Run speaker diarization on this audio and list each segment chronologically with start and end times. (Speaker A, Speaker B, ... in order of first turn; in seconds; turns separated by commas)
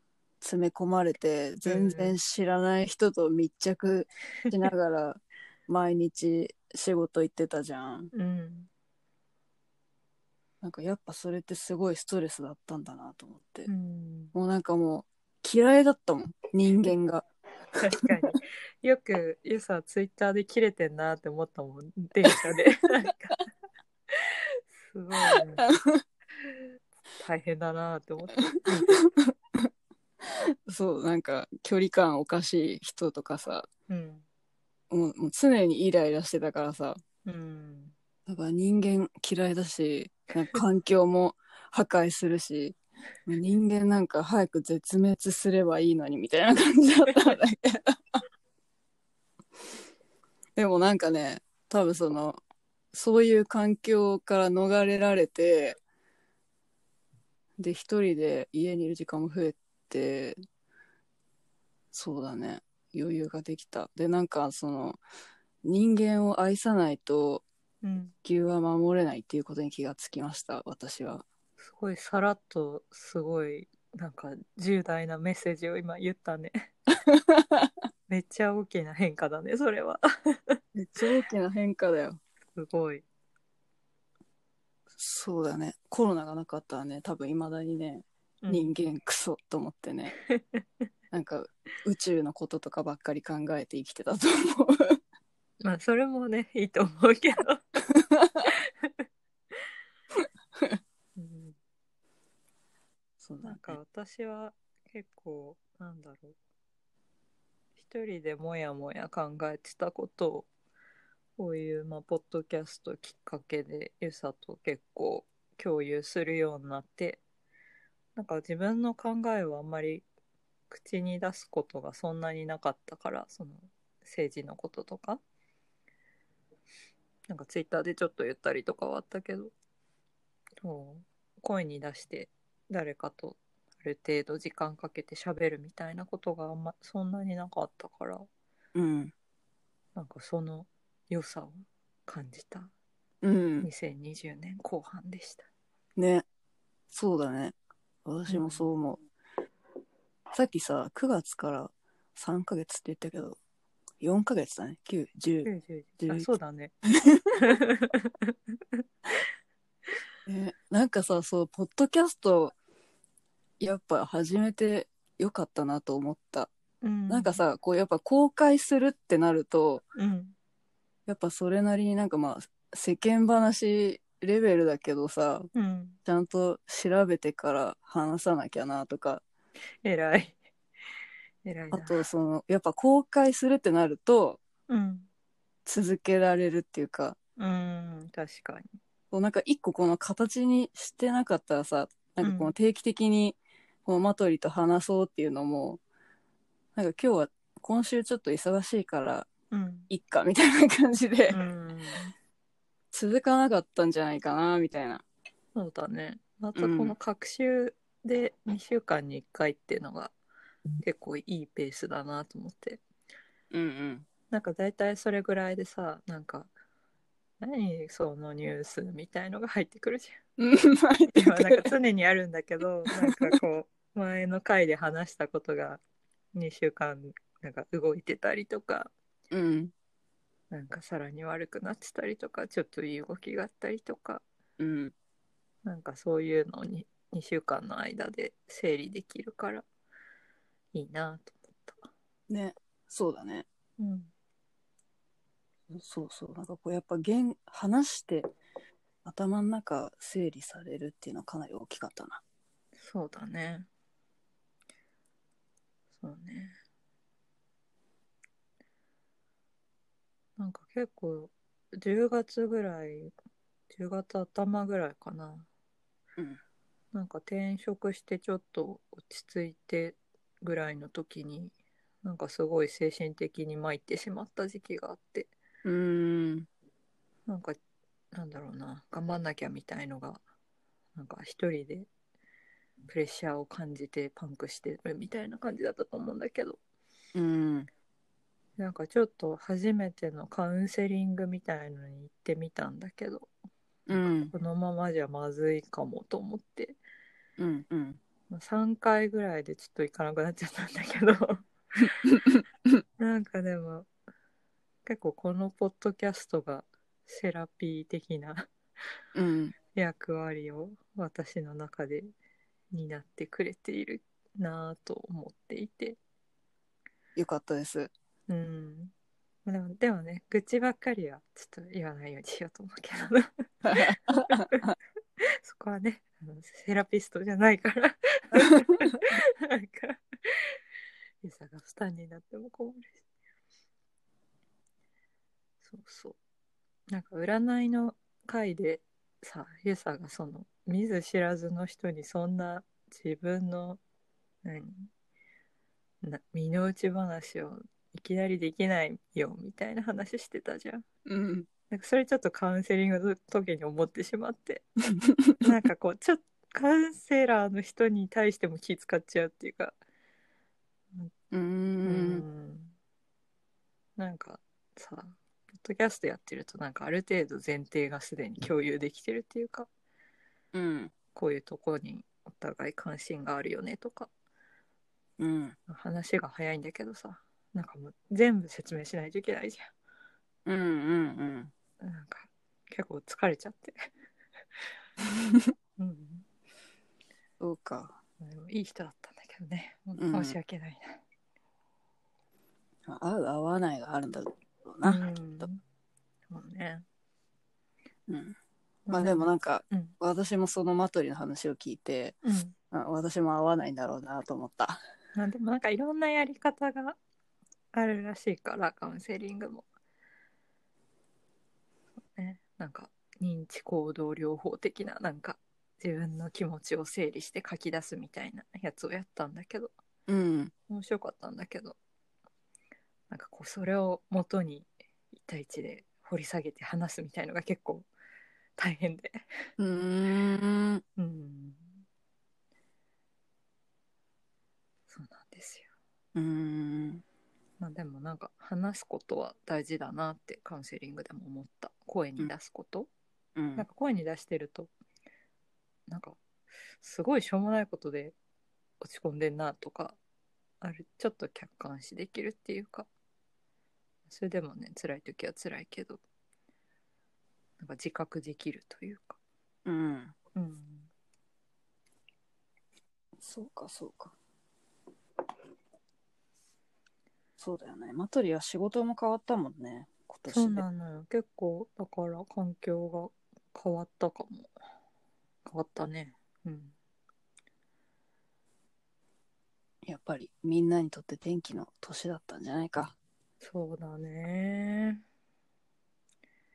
Speaker A: 0.4-8.1, Speaker B: 1.6-2.2, Speaker B: 8.1-8.7, Speaker A: 10.6-13.7, Speaker B: 13.7-14.3, Speaker A: 14.3-17.2, Speaker B: 17.7-23.4, Speaker B: 24.1-25.7, Speaker A: 25.2-26.0, Speaker B: 27.2-29.1, Speaker A: 28.6-29.7, Speaker A: 30.2-33.7, Speaker B: 33.9-34.2, Speaker A: 34.9-37.0, Speaker B: 37.2-37.9, Speaker A: 38.3-48.2, Speaker A: 50.5-52.4, Speaker A: 52.9-55.8, Speaker A: 57.6-60.4, Speaker A: 61.9-65.0, Speaker A: 65.6-67.4, Speaker B: 67.8-68.1, Speaker A: 68.2-71.2, Speaker B: 71.6-76.7, Speaker A: 77.0-77.7, Speaker B: 78.1-80.6, Speaker A: 80.7-82.2, Speaker B: 82.5-83.0, Speaker A: 85.0-90.1, Speaker B: 88.4-88.7, Speaker B: 90.3-90.6, Speaker A: 91.1-95.0, Speaker B: 95.6-97.6, Speaker A: 98.2-98.4, Speaker B: 98.4-98.9, Speaker B: 101.2-101.5, Speaker A: 103.2-103.8, Speaker B: 103.4-106.3, Speaker B: 107.8-110.5, Speaker B: 111.4-117.2, Speaker B: 118.2-120.0, Speaker B: 120.7-125.2, Speaker B: 127.3-129.5, Speaker B: 130.6-138.3, Speaker A: 138.7-139.1, Speaker B: 139.9-142.7, Speaker A: 143.2-143.7, Speaker B: 143.6-145.5, Speaker A: 145.9-146.2, Speaker A: 146.9-147.5, Speaker A: 148.1-149.0, Speaker B: 148.3-148.7, Speaker A: 150.3-153.4, Speaker A: 154.0-155.5, Speaker B: 155.4-156.7, Speaker A: 156.0-156.3, Speaker A: 156.9-157.3, Speaker B: 157.3-158.3, Speaker A: 160.2-162.5, Speaker A: 163.6-166.5, Speaker B: 166.8-167.4, Speaker A: 167.1-169.8, Speaker B: 169.9-170.3, Speaker A: 171.1-175.5, Speaker B: 175.5-176.0, Speaker A: 176.0-179.2, Speaker B: 179.8-180.4, Speaker B: 181.4-182.1, Speaker A: 181.7-184.4, Speaker B: 184.7-185.1, Speaker A: 185.7-187.2, Speaker B: 187.4-188.7, Speaker A: 189.1-195.8, Speaker B: 192.2-192.5, Speaker A: 196.7-199.3, Speaker B: 199.5-199.9, Speaker A: 199.9-201.4, Speaker B: 201.3-202.1, Speaker A: 202.9-205.0, Speaker B: 205.5-210.1, Speaker A: 206.5-206.9, Speaker B: 210.8-212.8, Speaker A: 213.5-214.1, Speaker B: 214.3-216.5, Speaker B: 217.4-220.2, Speaker A: 220.4-221.7, Speaker B: 221.1-225.8, Speaker A: 222.9-223.3, Speaker B: 226.3-228.9, Speaker A: 229.3-229.7, Speaker B: 230.5-234.2, Speaker A: 234.6-234.9, Speaker B: 235.6-239.6, Speaker B: 240.7-241.9, Speaker A: 242.3-243.4, Speaker B: 243.8-244.1, Speaker A: 245.7-248.3, Speaker A: 249.0-252.2, Speaker B: 252.8-253.7, Speaker B: 256.0-256.6, Speaker B: 260.4-263.1, Speaker B: 263.7-265.5, Speaker B: 266.9-275.3, Speaker A: 275.6-276.5, Speaker B: 277.3-277.6, Speaker B: 278.1-280.2, Speaker B: 280.9-281.9, Speaker B: 282.9-286.6, Speaker A: 287.1-287.7, Speaker B: 288.6-293.3, Speaker A: 293.9-294.3, Speaker B: 293.9-296.8, Speaker A: 297.4-298.0, Speaker B: 298.3-302.1, Speaker A: 301.8-302.4, Speaker B: 303.0-303.9, Speaker B: 304.9-308.5, Speaker A: 309.1-309.5, Speaker B: 309.7-312.1, Speaker B: 312.7-316.0, Speaker A: 317.1-317.9, Speaker B: 318.3-318.9, Speaker B: 319.4-330.6, Speaker A: 323.7-324.7, Speaker B: 331.2-333.0, Speaker B: 335.6-336.2, Speaker B: 336.9-343.8, Speaker B: 344.4-344.9, Speaker B: 346.0-350.8, Speaker A: 351.1-351.5, Speaker B: 351.7-354.6, Speaker A: 355.0-355.4, Speaker B: 355.4-359.7, Speaker A: 361.3-362.2, Speaker B: 361.8-362.7, Speaker B: 364.0-369.7, Speaker A: 370.5-370.9, Speaker B: 371.1-374.1, Speaker A: 375.2-375.6, Speaker B: 375.7-379.7, Speaker A: 380.4-381.5, Speaker B: 381.8-383.9, Speaker A: 385.0-385.5, Speaker B: 385.8-386.2, Speaker A: 387.4-387.9, Speaker B: 388.2-391.0, Speaker A: 390.0-390.4, Speaker A: 392.9-395.4, Speaker B: 394.8-395.6, Speaker B: 396.3-396.8, Speaker A: 398.1-398.4, Speaker B: 398.9-399.9, Speaker A: 398.9-402.2, Speaker B: 402.2-402.6, Speaker A: 402.7-404.8, Speaker B: 405.1-406.9, Speaker B: 407.7-409.6, Speaker B: 412.1-419.7, Speaker A: 420.1-420.5, Speaker B: 420.7-421.8, Speaker B: 423.1-427.9, Speaker B: 428.6-429.2, Speaker A: 429.6-430.8, Speaker B: 431.0-431.7, Speaker B: 434.9-435.7, Speaker A: 436.1-437.0, Speaker B: 437.6-442.9, Speaker A: 443.4-443.6, Speaker B: 443.6-444.7, Speaker B: 445.9-446.2, Speaker B: 446.8-448.1, Speaker B: 448.8-450.0, Speaker B: 450.6-452.9, Speaker B: 454.1-456.0, Speaker B: 457.6-459.2, Speaker A: 459.6-460.1, Speaker B: 460.3-460.9, Speaker A: 463.2-464.1, Speaker A: 467.4-470.6, Speaker B: 470.3-474.5, Speaker B: 475.4-476.7, Speaker A: 479.8-482.9, Speaker B: 483.4-485.0